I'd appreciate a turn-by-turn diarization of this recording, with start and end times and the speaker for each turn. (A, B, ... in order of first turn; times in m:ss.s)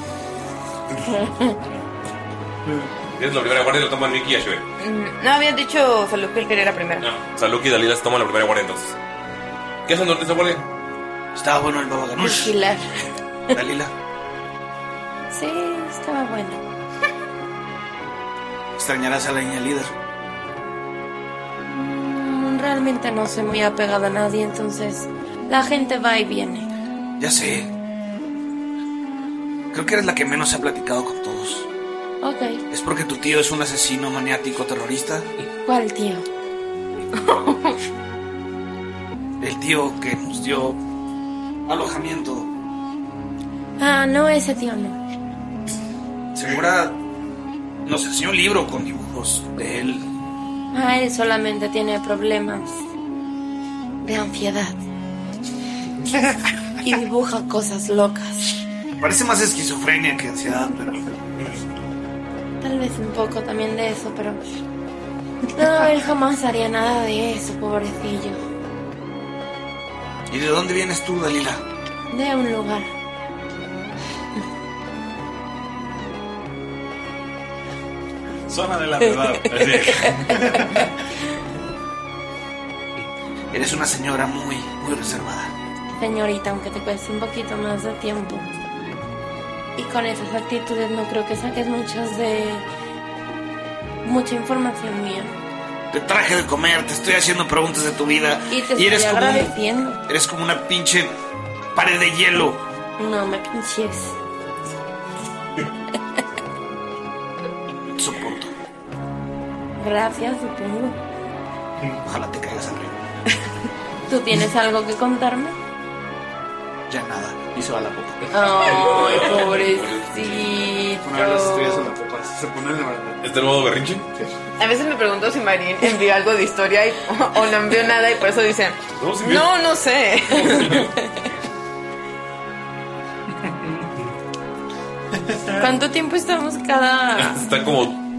0:03.2-0:04.6 A
0:04.8-0:07.0 B
0:07.0-0:08.9 A
0:09.8-0:10.6 A
0:11.3-0:12.5 C
0:12.2-0:12.7 D
0:13.5-0:13.9 C
0:15.3-0:16.6 D
0:18.7-0:19.9 C
0:21.7-0:26.7 D
0:27.2-0:27.7 C
0:29.7-0:31.7 C
0:32.2-0:32.6 D
0:32.7-0:35.3 C
0:35.6-0:36.2 D
0:37.1-0:37.8 B
0:39.4-0:40.8 C
0:41.6-0:42.5 C
0:43.8-0:45.0 D
0:46.3-0:47.0 C
0:47.8-0:50.1 C
0:50.7-0:52.8 D
0:54.0-0:54.8 D
0:56.8-0:58.6 D
0:59.0-1:01.0 C
1:02.6-1:04.4 D
1:05.6-1:08.4 D
1:10.3-1:11.6 C
1:12.1-1:12.9 D
1:18.5-1:20.8 E
1:19.0-1:20.6 D
1:23.5-1:25.5 C
1:26.0-1:28.5 D
1:29.8-1:32.6 D
1:34.0-1:35.3 D
1:35.9-1:39.5 C
1:38.5-1:40.0 D
1:40.1-1:41.1 C
1:41.7-1:42.6 C
1:43.0-1:44.2 D
1:47.9-1:48.5 C
1:49.8-1:51.0 D
1:52.0-1:53.0 C
1:54.1-1:55.6 D
1:56.9-1:58.2 C
1:58.3-2:01.9 D
1:58.4-2:00.7 A
2:01.0-2:03.2 C
2:03.2-2:04.1 A
2:04.6-2:10.8 B
2:09.0-2:09.5 A
2:10.3-2:10.9 A
2:10.3-2:11.0 D
2:15.5-2:17.4 D
2:17.1-2:18.0 A